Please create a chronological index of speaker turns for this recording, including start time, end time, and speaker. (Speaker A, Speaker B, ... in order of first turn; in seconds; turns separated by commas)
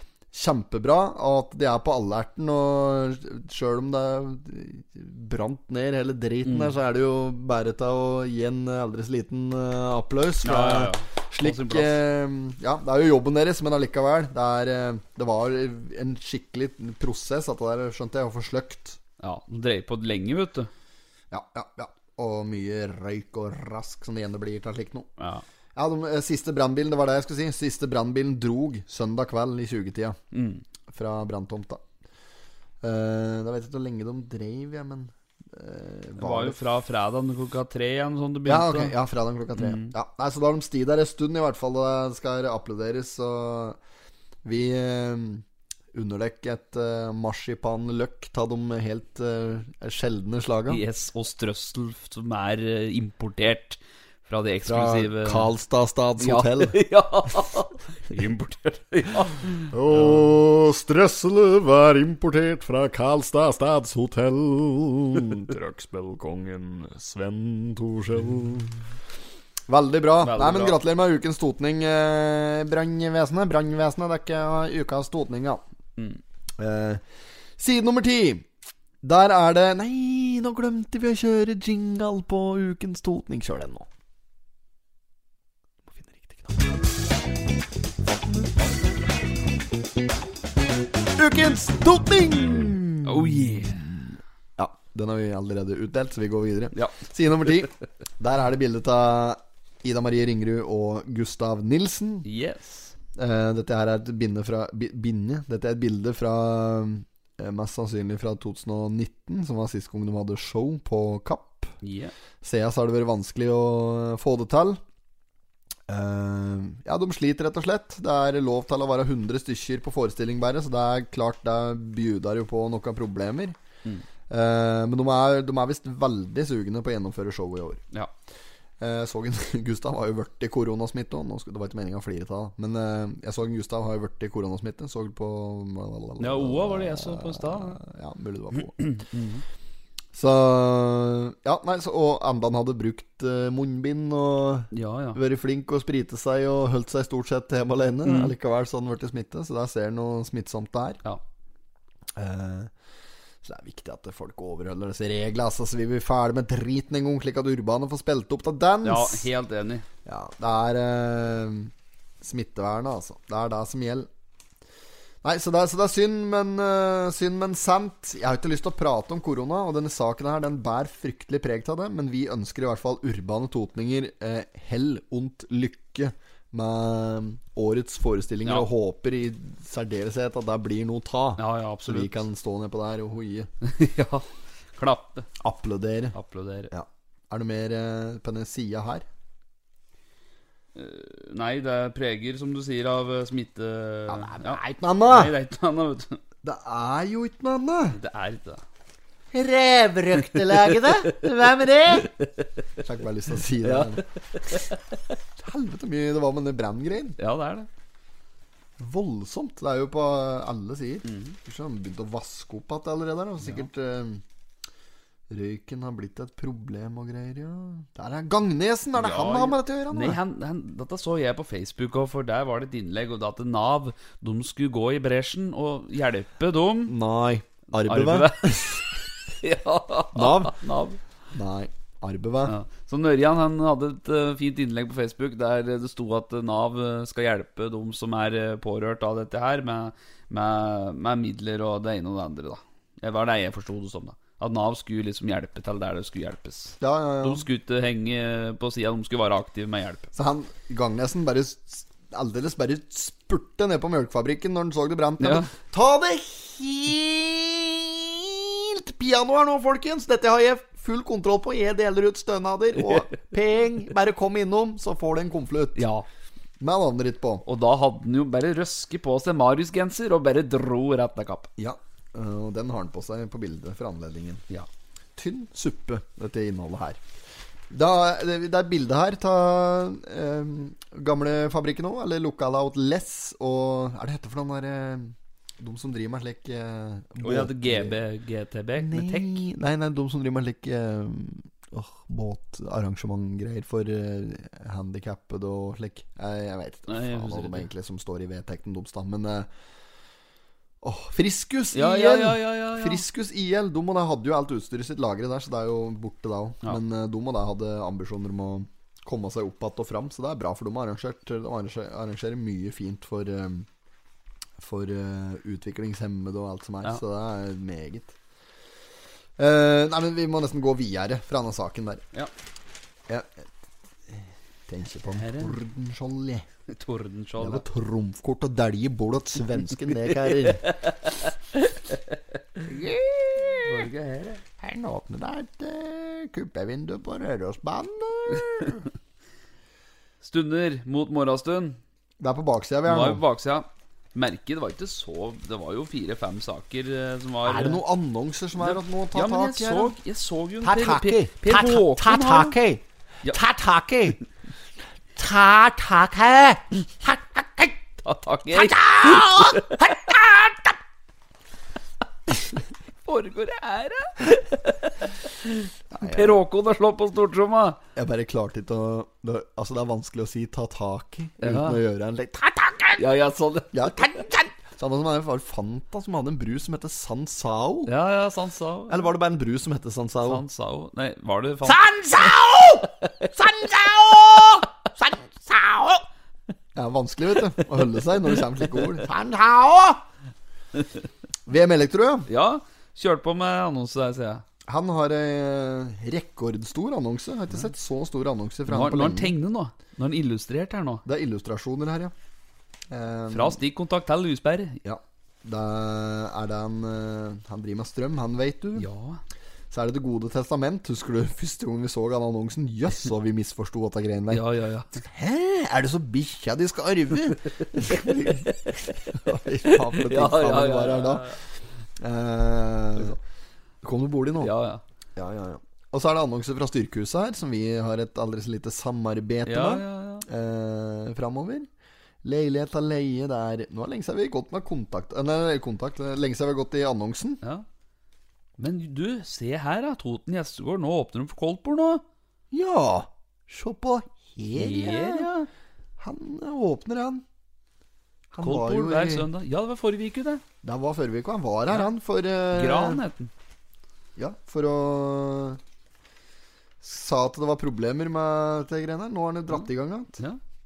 Speaker A: 0.3-19.0, Speaker B: 6.4-6.8, Speaker B: 10.4-11.9, Speaker B: 19.2-20.7, Speaker A: 21.3-25.1, Speaker B: 25.2-25.4, Speaker A: 25.7-30.2, Speaker B: 30.3-30.6, Speaker A: 30.9-31.8, Speaker A: 32.8-36.6, Speaker B: 36.2-38.9, Speaker A: 38.5-43.8, Speaker B: 39.5-39.9, Speaker A: 44.4-50.8, Speaker B: 50.7-55.5, Speaker A: 54.6-56.8, Speaker B: 56.2-60.2, Speaker A: 59.7-68.8, Speaker A: 69.7-75.6, Speaker B: 70.2-70.8, Speaker A: 76.6-77.0, Speaker A: 77.6-78.5, Speaker A: 79.0-83.9, Speaker A: 85.9-86.5, Speaker A: 88.1-88.5, Speaker A: 91.2-102.3, Speaker B: 93.0-93.8, Speaker B: 96.7-97.0, Speaker B: 102.2-102.9, Speaker A: 103.2-111.7, Speaker B: 111.8-112.1, Speaker A: 112.4-114.8, Speaker A: 115.9-123.5, Speaker A: 124.3-127.8, Speaker A: 128.8-138.9, Speaker B: 136.2-137.8, Speaker B: 138.8-139.4, Speaker A: 140.1-151.0, Speaker B: 144.7-145.2, Speaker B: 148.0-148.3, Speaker A: 152.2-152.7, Speaker A: 153.4-159.3, Speaker B: 158.8-159.8, Speaker A: 160.1-164.1, Speaker A: 165.2-183.5, Speaker B: 181.4-182.1, Speaker B: 183.6-185.3, Speaker A: 185.4-186.2, Speaker B: 186.1-186.7, Speaker A: 186.7-189.0, Speaker B: 190.7-196.2, Speaker A: 194.1-195.3, Speaker A: 196.4-198.0, Speaker B: 197.9-198.6, Speaker C: 199.3-202.0, Speaker B: 200.2-201.4, Speaker B: 201.9-202.6, Speaker A: 202.8-204.0, Speaker B: 203.6-204.9, Speaker A: 205.4-207.2, Speaker B: 207.2-207.7, Speaker A: 208.8-214.2, Speaker B: 211.0-211.3, Speaker B: 213.4-213.7, Speaker A: 215.3-220.2, Speaker B: 218.9-226.9, Speaker A: 226.9-228.9, Speaker B: 227.8-228.8, Speaker B: 229.4-231.0, Speaker A: 230.1-230.6, Speaker A: 231.3-232.5, Speaker B: 232.4-250.1, Speaker A: 246.8-247.4, Speaker A: 250.1-265.9, Speaker B: 255.2-255.5, Speaker B: 265.8-266.1, Speaker A: 266.6-267.4, Speaker B: 267.4-271.5, Speaker A: 271.6-274.4, Speaker A: 275.1-277.0, Speaker A: 277.7-288.0, Speaker B: 287.2-289.4, Speaker A: 288.8-299.5, Speaker B: 296.9-297.7, Speaker A: 300.8-313.7, Speaker B: 301.7-303.0, Speaker A: 314.6-318.1, Speaker A: 319.4-322.0, Speaker A: 323.1-323.5, Speaker A: 324.1-326.4, Speaker B: 325.0-325.6, Speaker B: 326.7-327.6, Speaker A: 327.4-330.7, Speaker B: 330.0-332.2, Speaker A: 332.8-333.6, Speaker B: 333.4-334.4, Speaker A: 334.6-338.8, Speaker B: 340.2-341.8, Speaker A: 342.2-343.2, Speaker B: 342.8-347.8, Speaker A: 347.5-349.9, Speaker B: 348.6-352.6, Speaker C: 350.6-354.2, Speaker C: 355.2-357.8, Speaker B: 358.0-360.1, Speaker C: 358.5-360.8, Speaker B: 363.1-367.8, Speaker A: 365.9-366.4, Speaker A: 367.9-373.0, Speaker B: 371.4-371.8, Speaker B: 373.0-373.9, Speaker A: 373.7-377.9, Speaker C: 374.0-374.4, Speaker B: 377.9-379.1, Speaker A: 378.9-380.4, Speaker B: 380.2-382.3, Speaker C: 381.6-386.0, Speaker A: 386.7-389.1, Speaker C: 389.0-390.0, Speaker A: 391.5-392.3, Speaker B: 392.3-394.4, Speaker A: 394.7-399.3, Speaker B: 398.6-401.0, Speaker A: 401.0-402.1, Speaker A: 402.9-403.6, Speaker B: 403.3-404.8, Speaker A: 404.8-408.9, Speaker B: 408.8-409.2, Speaker A: 409.7-421.4, Speaker B: 414.3-415.0, Speaker B: 417.8-419.1, Speaker B: 419.7-421.4, Speaker A: 422.0-423.2, Speaker A: 423.8-424.5, Speaker B: 424.4-424.8, Speaker A: 425.1-431.7, Speaker B: 429.4-430.2, Speaker A: 432.2-437.4, Speaker B: 437.4-437.7, Speaker B: 438.6-442.0, Speaker A: 442.5-445.4, Speaker B: 444.5-445.4, Speaker A: 446.0-447.2, Speaker A: 448.3-449.3, Speaker B: 448.4-450.4, Speaker A: 450.6-453.0, Speaker B: 452.5-453.3, Speaker A: 454.2-455.6, Speaker A: 456.8-460.2, Speaker B: 459.5-460.4